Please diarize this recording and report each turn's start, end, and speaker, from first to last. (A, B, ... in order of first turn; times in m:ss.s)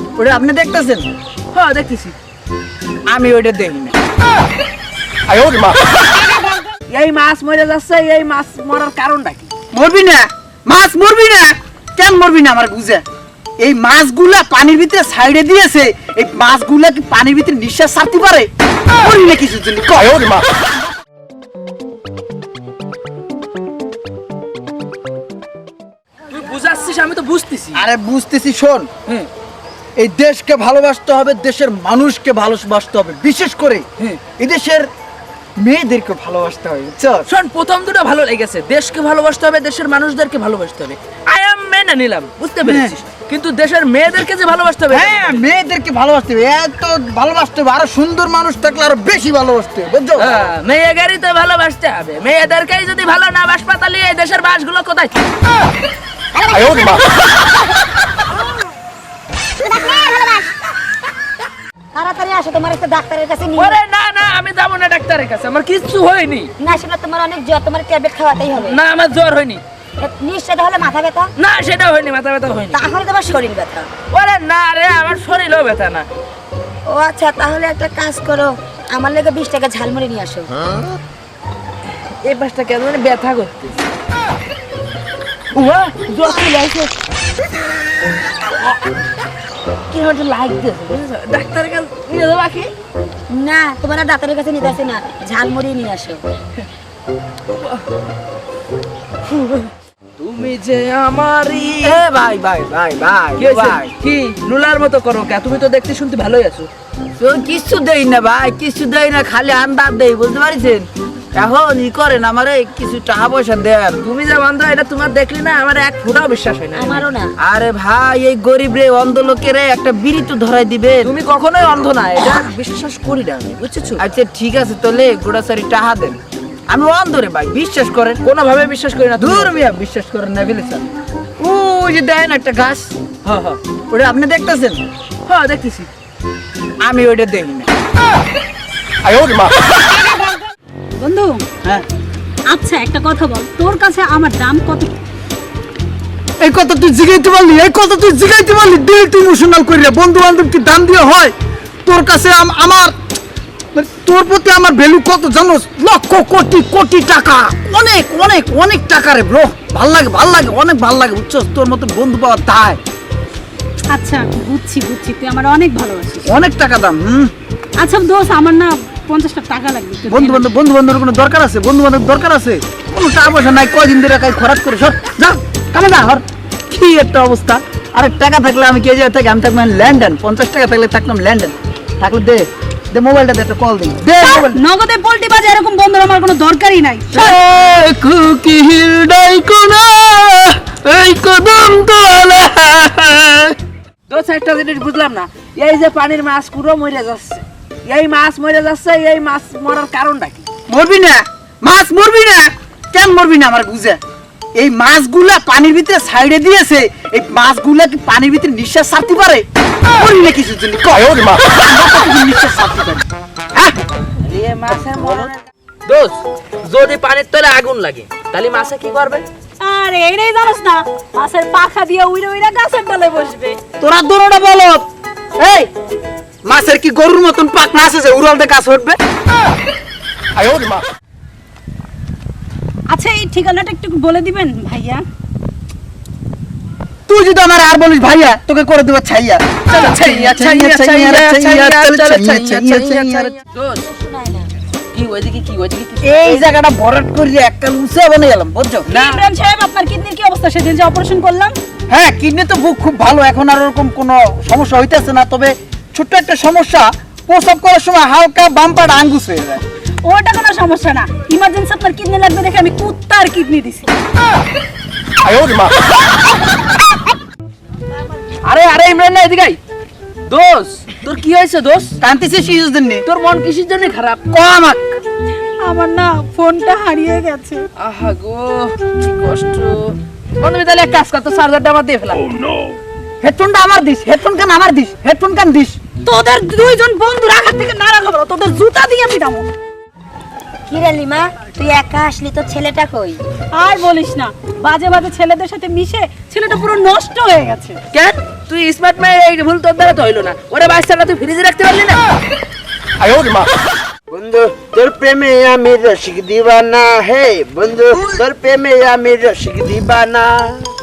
0:00.2-0:01.1 A
0:01.5-0:02.2 B
0:03.1-0:04.0 A
0:06.9-0:09.5 B
0:09.7-0:13.0 A
0:13.6-0:18.5 A
0:19.0-0:20.4 A
0:26.3-0:27.8 B
0:27.7-0:28.9 A
0:30.0-0:34.9 A
0:35.6-0:37.3 A
0:37.3-0:45.4 B
0:42.6-0:43.0 A
0:44.9-0:50.4 A
0:50.2-0:55.3 B
0:56.3-0:57.3 C
0:59.6-1:00.7 C
1:01.9-1:03.8 C
1:03.6-1:06.5 B
1:06.6-1:08.8 C
1:08.6-1:09.6 B
1:10.0-1:11.3 C
1:11.4-1:12.8 B
1:12.7-1:13.9 C
1:14.1-1:16.1 B
1:16.9-1:20.6 C
1:22.2-1:23.8 B
1:25.5-1:26.9 B
1:29.9-1:32.7 B
1:33.3-1:36.2 C
1:37.5-1:37.8 B
1:39.3-1:42.0 B
1:41.8-1:43.9 A
1:43.4-1:46.7 B
1:47.2-1:54.0 A
1:54.0-1:57.1 B
1:56.7-1:57.3 C
1:57.4-2:01.1 A
2:01.0-2:04.0 B
2:04.0-2:08.2 A
2:08.2-2:09.6 B
2:09.2-2:10.8 A
2:11.4-2:13.0 A
2:13.2-2:13.6 B
2:13.9-2:14.8 A
2:15.3-2:15.9 B
2:16.8-2:17.7 A
2:20.0-2:20.4 D
2:21.0-2:21.4 D
2:22.5-2:25.0 D
2:26.4-2:31.3 A
2:31.8-2:33.0 A
2:33.7-2:42.8 A
2:43.9-2:46.3 D
2:46.2-2:47.3 A
2:47.8-2:50.5 D
2:50.1-3:04.6 A
3:04.2-3:07.4 D
3:07.1-3:13.5 A
3:14.1-3:20.5 B
3:20.7-3:24.0 A
3:24.6-3:33.8 A
3:34.2-3:39.3 B
3:39.6-3:43.6 D
3:43.8-3:45.7 A
3:46.4-3:49.0 A
3:52.9-3:55.0 D
3:57.1-4:03.4 A
3:59.7-4:03.8 B
4:03.8-4:04.5 C
4:04.9-4:06.5 B
4:06.0-4:08.9 A
4:08.9-4:11.6 D
4:08.9-4:09.2 B
4:11.9-4:19.6 A
4:20.0-4:23.9 D
4:25.4-4:25.7 B
4:28.4-4:29.6 B
4:30.3-4:32.0 B
4:32.0-4:33.1 A
4:33.0-4:34.3 B
4:34.3-4:35.0 A
4:35.6-4:37.7 D
4:37.8-4:42.3 B
4:43.2-4:45.8 A
4:46.0-4:49.5 D
4:50.7-4:53.2 C
4:53.5-4:57.8 D
4:57.9-5:02.0 B
5:04.1-5:10.6 E